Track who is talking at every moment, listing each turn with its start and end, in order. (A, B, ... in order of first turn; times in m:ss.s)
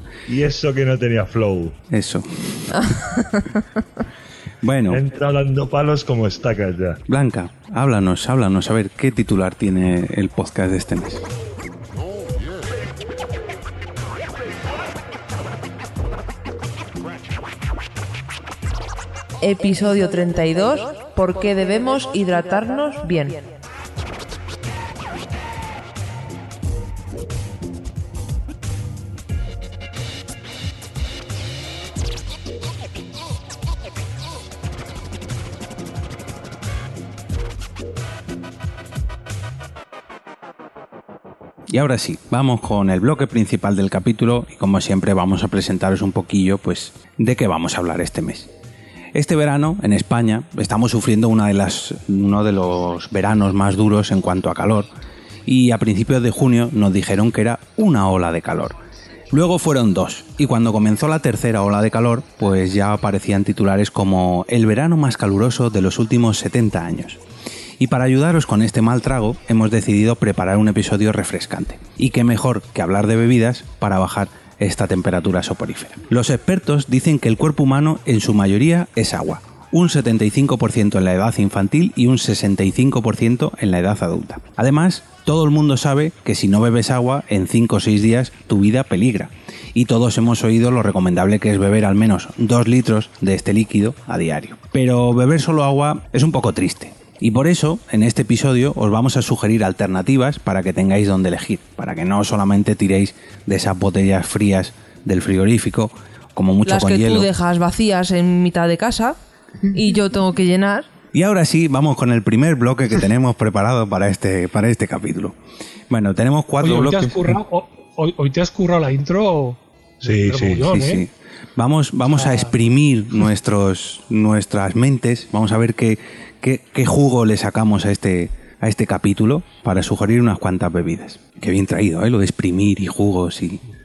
0:00.3-0:01.8 A
0:01.9-0:02.7 B
0:02.7-0:03.6 C
0:04.6-0:05.0 B
0:04.9-0:07.0 A
0:07.1-0:11.2 B
0:19.4-0:23.4 C
0:41.7-0:48.5 B
0:49.1-0:54.9 B
0:55.4-0:58.8 B
0:59.3-1:07.2 B
1:07.8-1:47.3 B
1:46.6-1:49.2 C
1:49.7-1:50.9 C
1:51.1-1:55.3 B
1:55.9-1:57.4 B
1:56.6-2:01.0 D
2:00.0-2:00.6 A
2:00.6-2:13.6 B
2:02.1-2:02.6 D